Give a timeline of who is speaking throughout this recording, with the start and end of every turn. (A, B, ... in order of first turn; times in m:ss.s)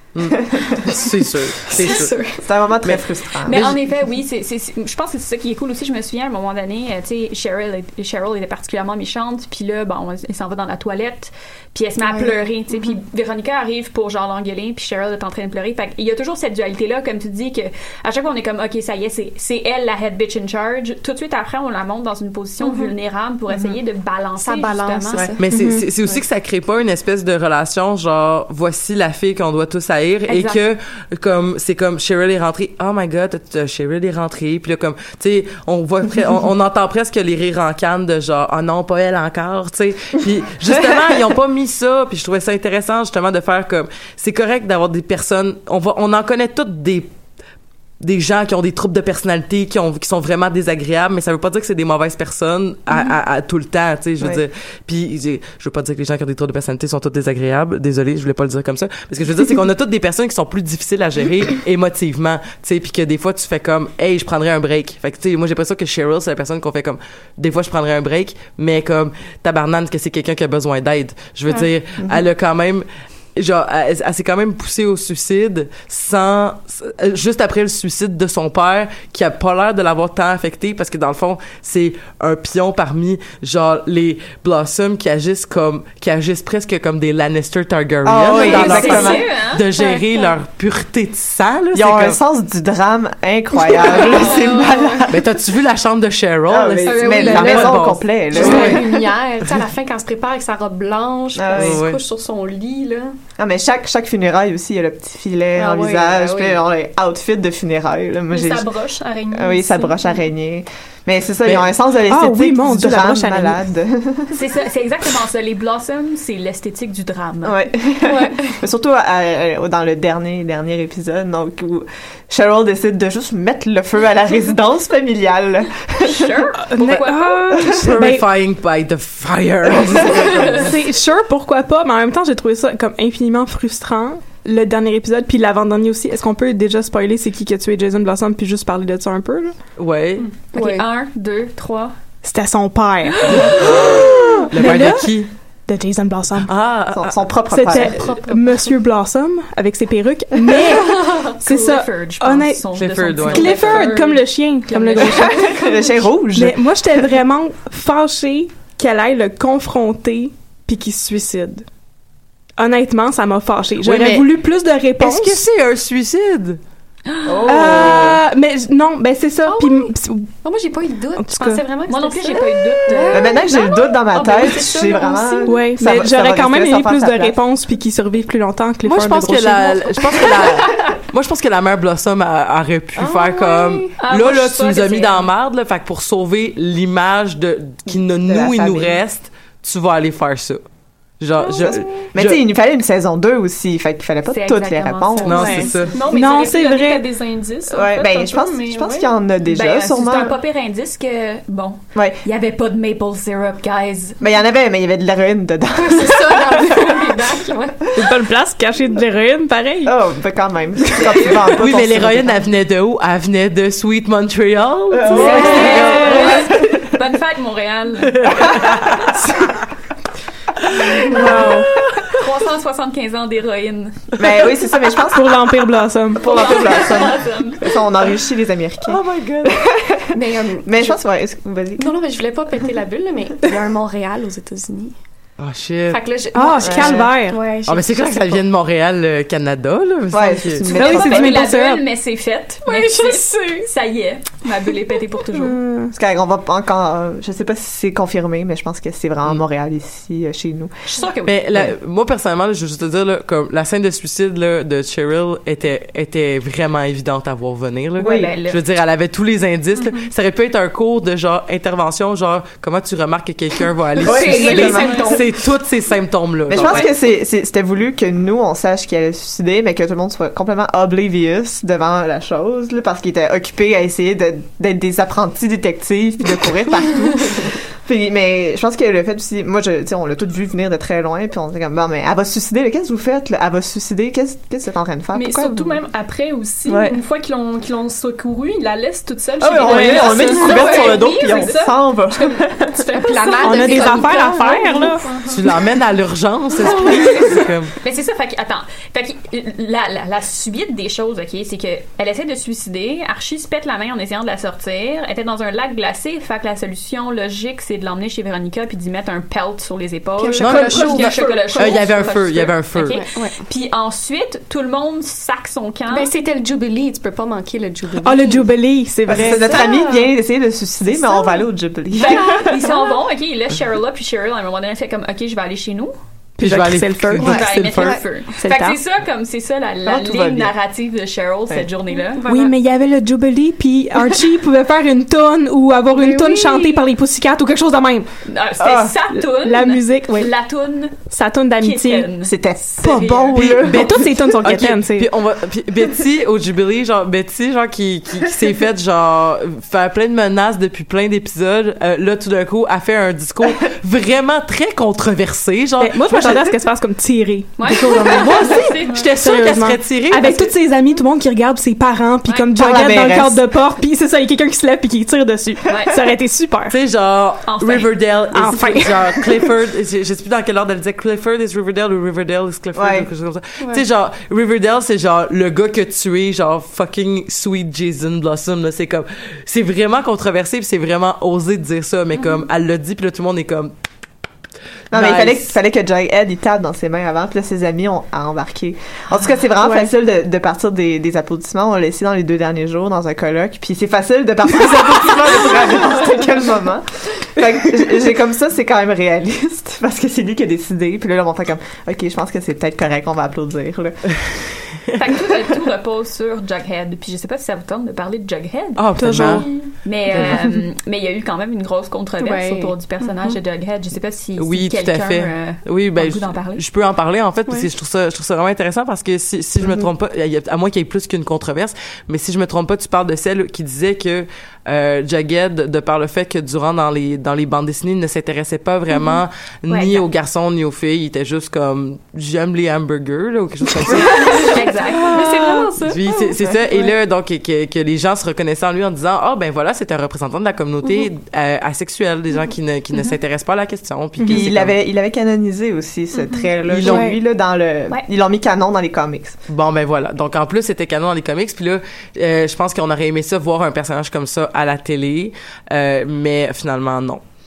0:00.1-0:02.2 A
0:01.7-0:02.5 B
0:02.4-0:03.6 C
0:02.8-0:03.8 A
0:03.5-0:25.3 D
0:12.0-0:12.3 B
0:22.6-0:22.9 B
0:24.4-0:25.4 B
0:25.4-0:47.1 A
0:25.5-0:25.8 E
0:30.3-0:30.6 D
0:48.0-1:32.2 A
1:12.0-1:12.2 C
1:28.0-1:29.2 C
1:28.3-1:30.2 D
1:31.7-1:35.3 C
1:33.7-1:35.0 B
1:33.9-1:34.4 D
1:35.1-1:38.8 A
1:36.5-1:38.9 C
1:36.8-1:37.7 B
1:37.2-1:37.8 E
1:38.3-1:43.2 B
1:38.4-1:38.8 E
1:41.3-1:41.8 C
1:41.6-1:42.0 A
1:43.4-1:48.7 C
1:45.5-1:46.6 B
1:48.3-1:50.2 F
1:49.3-1:54.4 C
1:52.1-1:53.6 E
1:54.3-1:57.7 D
1:57.4-2:06.4 C
1:58.0-1:58.6 B
2:06.0-2:07.5 D
2:06.7-2:08.2 E
2:07.5-2:07.8 C
2:07.8-2:10.7 A
2:10.5-2:19.5 E
2:19.8-2:20.3 A
2:20.5-2:20.8 B
2:20.5-2:21.9 D
2:22.2-2:26.5 E
2:23.3-2:25.3 A
2:26.5-2:27.2 A
2:26.9-2:28.1 C
2:27.5-2:32.6 E
2:28.0-2:28.7 B
2:30.8-2:31.3 B
2:31.4-2:34.1 D
2:32.8-2:33.6 A
2:33.3-2:35.6 E
2:33.4-2:34.2 F
2:34.6-2:35.4 D
2:35.2-2:37.1 C
2:36.3-2:41.6 E
2:42.6-2:45.4 E
2:43.8-2:44.3 A
2:45.0-2:46.6 A
2:47.1-2:47.6 D
2:47.2-2:48.2 C
2:47.4-2:50.3 E
2:49.4-2:49.9 B
2:50.4-2:54.6 B
2:51.2-2:51.6 E
2:51.9-2:53.5 D
2:53.1-2:57.4 C
2:54.1-2:55.6 F
2:55.4-3:00.0 E
2:58.8-3:10.6 A
3:03.0-3:03.7 B
3:04.0-3:05.2 F
3:08.2-3:09.0 C
3:11.2-3:12.4 A
3:11.6-3:15.8 C
3:14.2-3:16.2 D
3:15.2-3:15.9 A
3:15.3-3:17.0 E
3:15.9-3:19.1 F
3:17.7-3:20.3 C
3:19.4-3:24.2 D
3:21.9-3:22.2 C
3:24.2-3:26.9 C
3:25.8-3:28.0 B
3:27.9-3:29.9 E
3:29.8-3:32.5 C
3:31.5-3:35.7 A
3:34.9-3:36.9 C
3:35.1-3:39.1 D
3:35.1-3:36.4 E
3:35.2-3:36.1 B
3:38.2-3:38.9 A
3:41.1-3:41.7 E
3:41.1-3:41.4 D
3:42.0-3:44.2 D
3:44.2-3:50.1 C
3:45.1-3:46.5 E
3:46.2-3:47.7 D
3:48.9-3:49.6 A
3:50.1-3:51.0 B
3:50.6-3:51.9 C
3:51.8-3:55.0 B
3:55.4-3:56.0 A
3:55.9-3:58.4 B
3:56.3-3:57.4 E
3:56.6-3:57.2 C
3:57.7-4:00.7 A
4:00.1-4:01.5 C
4:00.6-4:05.6 D
4:00.7-4:01.8 E
4:02.6-4:03.7 B
4:05.4-4:05.9 E
4:05.9-4:10.7 C
4:10.9-4:11.6 D
4:11.2-4:26.9 A
4:18.0-4:18.3 C
4:18.0-4:18.6 D
4:19.8-4:20.1 F
4:24.0-4:25.2 C
4:24.0-4:25.2 D
4:24.5-4:25.1 F
4:26.5-4:45.8 C
4:45.1-4:54.2 F
4:46.6-4:47.0 C
4:49.4-4:52.9 C
4:49.7-4:50.3 E
4:49.9-4:51.6 D
4:52.9-4:55.1 B
4:53.4-4:55.1 E
4:55.0-4:55.3 F
4:55.3-4:57.7 A
4:56.9-5:16.1 D
5:10.2-5:11.3 B
5:10.4-5:10.9 A
5:10.4-5:11.9 F
5:11.5-5:12.9 A
5:12.9-5:13.4 B
5:15.9-5:18.5 B
5:18.0-5:19.7 E
5:19.0-5:22.5 C
5:19.6-5:20.0 B
5:22.0-5:25.9 D
5:22.0-5:23.0 B
5:26.4-5:28.0 A
5:26.4-5:27.4 E
5:27.2-5:32.2 D
5:27.3-5:28.0 B
5:28.4-5:28.8 E
5:29.8-5:30.5 C
5:32.1-5:32.5 B
5:32.2-5:38.1 E
5:35.9-5:36.8 B
5:38.2-5:43.4 D
5:38.6-5:38.9 C
5:39.1-5:40.3 E
5:41.1-5:42.1 E
5:42.2-5:44.8 C
5:42.8-5:45.1 E
5:43.3-5:56.4 A
5:55.8-6:06.8 E
5:57.6-5:59.1 D
5:58.9-5:59.1 F
5:59.2-6:00.5 A
6:02.5-6:03.4 C
6:05.7-6:06.0 D
6:06.7-6:23.7 A
6:07.4-6:07.9 D
6:08.3-6:09.5 E
6:12.7-6:13.1 C
6:24.9-6:25.5 A
6:24.9-6:44.2 C
6:29.6-6:29.9 E
6:45.0-6:56.6 D
6:48.8-6:49.6 A
6:49.0-6:49.5 E
6:50.1-6:50.4 A
6:50.3-6:50.6 E
6:52.2-6:53.4 B
6:54.4-7:14.4 A
7:09.7-7:10.1 D
7:14.0-7:16.8 B
7:14.3-7:15.0 D
7:14.9-7:15.7 E
7:15.8-7:24.7 A
7:24.2-7:24.5 E
7:24.3-7:29.4 C
7:26.1-7:26.5 F
7:26.7-7:27.1 A
7:26.8-7:27.2 E
7:29.5-7:37.2 A